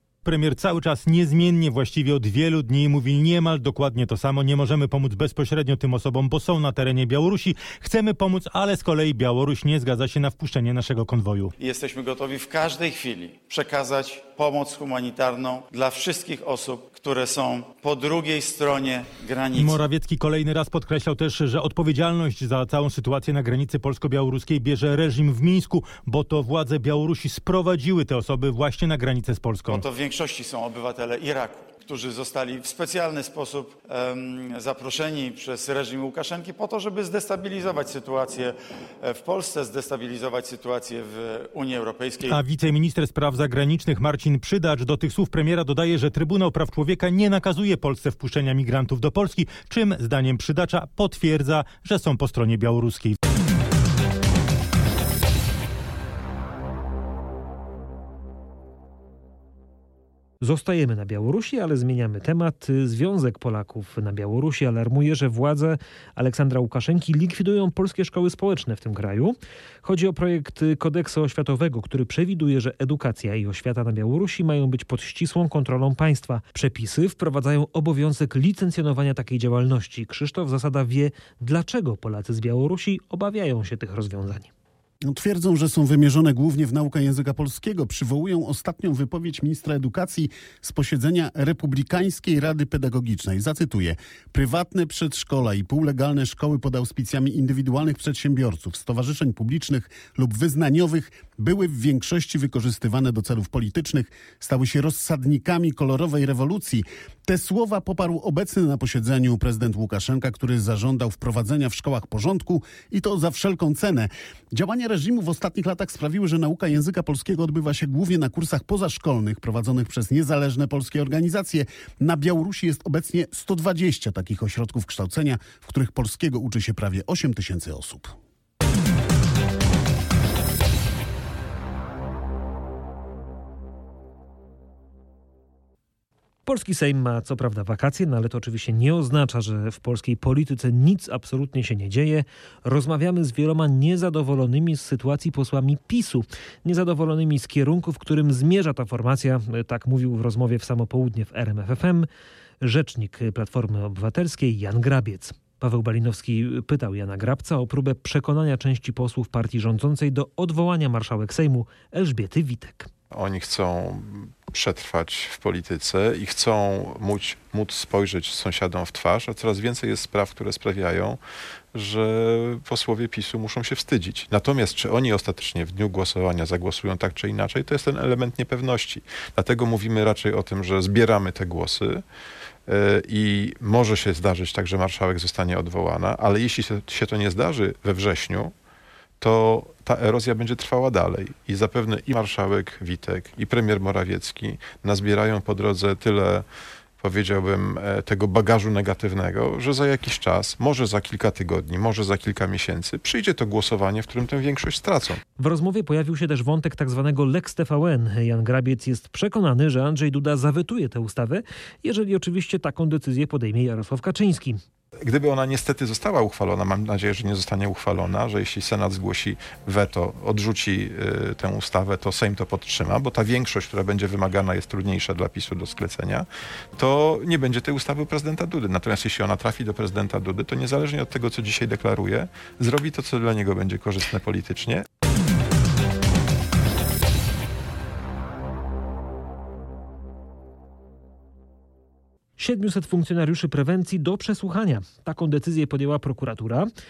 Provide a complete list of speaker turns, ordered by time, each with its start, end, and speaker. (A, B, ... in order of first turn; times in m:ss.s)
0:00.2-0:11.5 A
0:11.6-0:19.8 B
0:19.5-0:29.8 A
0:29.6-0:42.4 B
0:42.2-0:53.2 A
1:00.4-1:24.5 C
1:25.0-2:08.1 D
2:16.4-2:32.1 C
2:32.6-2:42.9 C
2:43.1-2:51.2 E
2:51.7-3:02.0 E
3:02.7-3:08.5 E
3:09.2-3:16.4 E
3:17.0-3:25.2 E
3:25.4-3:34.6 C
3:35.0-3:54.8 E
4:02.4-4:06.7 C